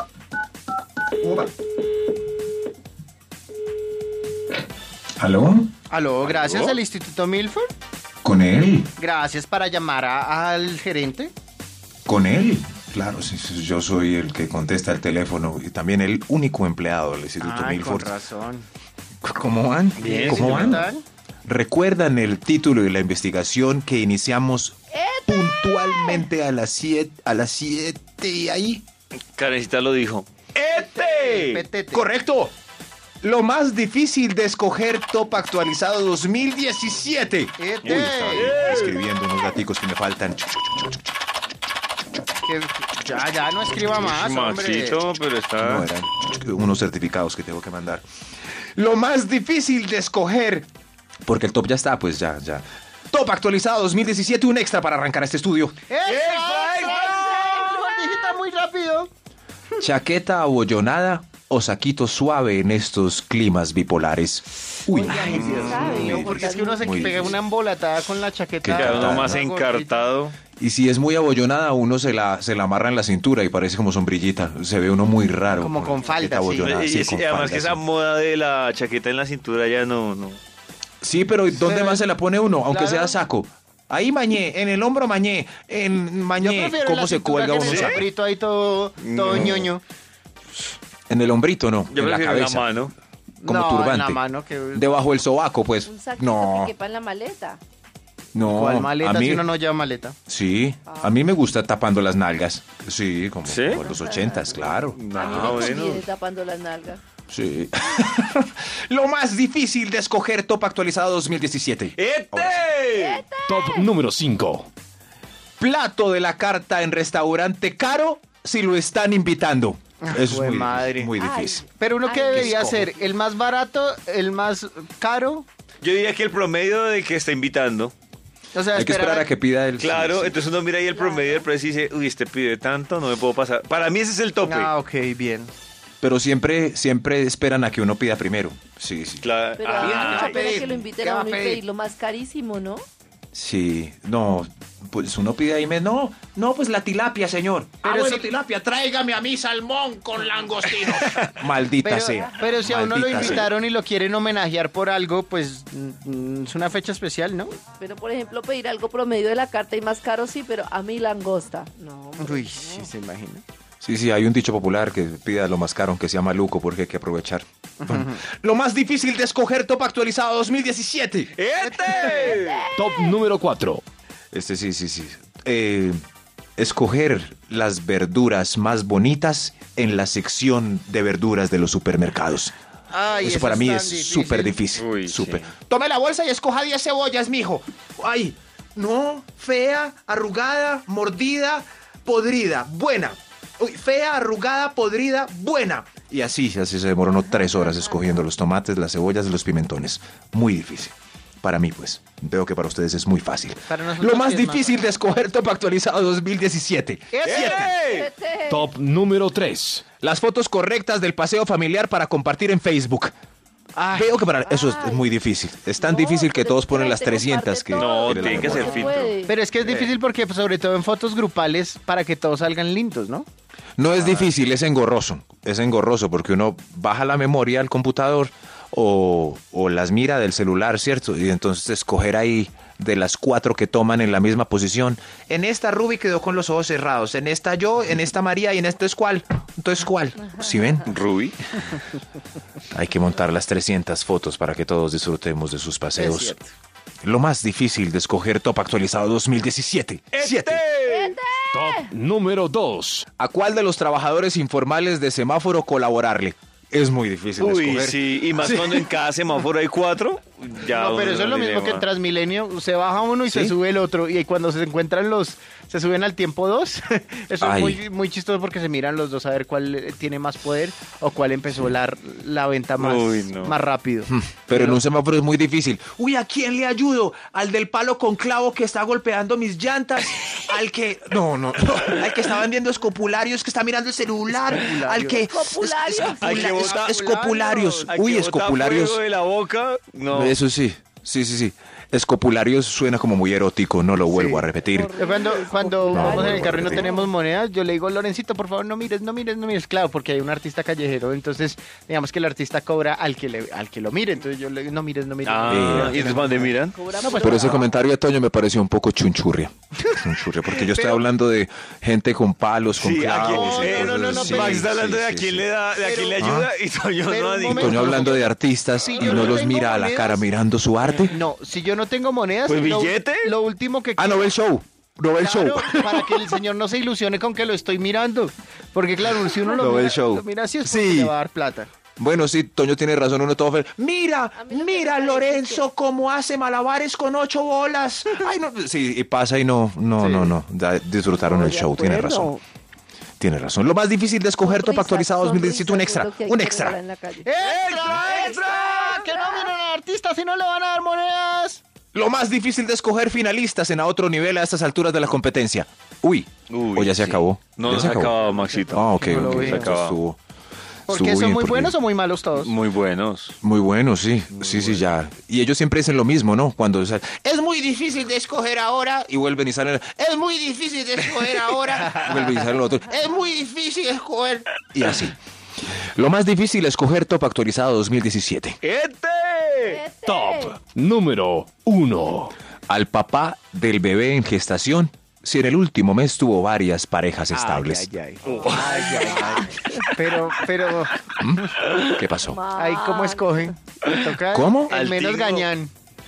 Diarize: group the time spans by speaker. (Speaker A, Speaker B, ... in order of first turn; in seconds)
Speaker A: 5.2-5.7, 8.2-8.9, 12.1-18.2, 19.2-20.9, 21.5-28.8, 31.9-32.5, 33.2-40.5, 45.6-48.0, 48.8-50.7, 51.3-55.8, 59.8-67.4, 68.6-69.4, 70.6-77.8, 81.0-88.0, 91.1-92.7, 93.4-94.2, 94.7-96.7, 98.3-99.5, 100.3-105.8, 107.3-112.7, 115.6-121.6, 122.3-122.9, 128.7-130.4, 136.0-139.3, 139.8-140.8, 143.3-153.5, 163.8-171.3, 174.3-176.0, 176.6-182.5, 183.2-207.8, 210.0-213.1, 213.9-219.1, 223.8-240.9, 242.7-246.4, 247.0-250.6, 253.2-258.9, 263.3-263.6, 267.4-267.8, 274.1-289.0, 290.1-294.9, 295.9-296.9, 305.5-306.1, 307.2-315.5, 316.2-316.5, 317.5-321.2, 324.0-326.4, 329.6-331.1, 332.0-342.3, 343.2-346.8, 351.9-358.1, 358.7-360.2, 360.9-361.8, 363.4-375.2, 376.0-378.6, 382.7-387.9, 391.2-392.4, 394.3-394.7
Speaker B: 5.9-7.7, 9.0-11.3, 17.4-18.7, 20.0-21.0, 30.8-32.1, 37.6-38.6, 42.4-45.0, 55.9-59.1, 64.9-70.1, 75.6-76.8, 81.5-82.1, 82.7-83.2, 86.4-89.8, 93.4-94.9, 98.5-100.2, 120.0-121.1, 121.8-125.5, 128.5-129.3, 134.4-135.5, 139.8-141.6, 147.8-148.3, 151.8-157.5, 162.2-163.4, 167.8-168.2, 171.6-172.4, 182.9-184.6, 203.7-204.8, 207.1-207.8, 213.8-214.2, 219.2-223.3, 223.9-224.2, 246.0-246.5, 260.7-274.8, 284.3-285.2, 286.3-287.9, 294.1-307.7, 310.6-311.0, 313.2-314.7, 315.8-316.2, 317.0-318.3, 318.9-320.3, 321.0-324.3, 325.2-331.7, 340.0-340.4, 341.3-342.4, 347.2-351.6, 358.1-359.7, 360.9-362.5, 371.9-372.5, 387.3-390.9, 392.6-395.7
Speaker C: 6.2-6.8, 20.0-20.9, 29.4-31.6, 37.8-39.0, 44.0-45.9, 56.1-57.1, 65.4-66.0, 68.7-70.4, 76.6-80.4, 87.7-88.0, 89.0-89.7, 91.9-92.9, 103.5-103.9, 104.9-106.1, 112.0-113.3, 125.8-127.9, 129.8-134.7, 139.2-140.4, 171.4-172.7, 184.8-185.5, 207.2-208.1, 217.8-219.9, 240.9-241.4, 250.2-251.2, 257.4-261.9, 272.8-273.6, 286.2-286.9, 287.9-290.4, 305.2-306.8, 312.8-318.1, 319.0-319.4, 322.4-323.3, 347.4-348.8, 356.5-360.0, 362.4-363.4, 364.3-364.9, 378.6-379.8, 388.2-389.4, 394.7-395.5
Speaker D: 24.9-26.3, 56.8-58.4, 64.9-67.4, 95.8-97.6, 100.9-101.2, 103.8-107.0, 112.9-113.9, 121.2-123.0, 130.9-131.5, 139.6-142.8, 157.8-162.9, 172.4-173.1, 207.8-208.7, 214.4-215.1, 215.8-219.4, 250.9-251.9, 285.1-286.5, 294.6-297.1, 306.6-307.8, 334.4-335.7, 341.4-342.3, 344.4-349.5, 379.6-380.6, 392.2-393.5
Speaker E: 113.5-114.7, 172.7-173.8, 208.5-209.8, 251.5-253.1, 380.1-382.3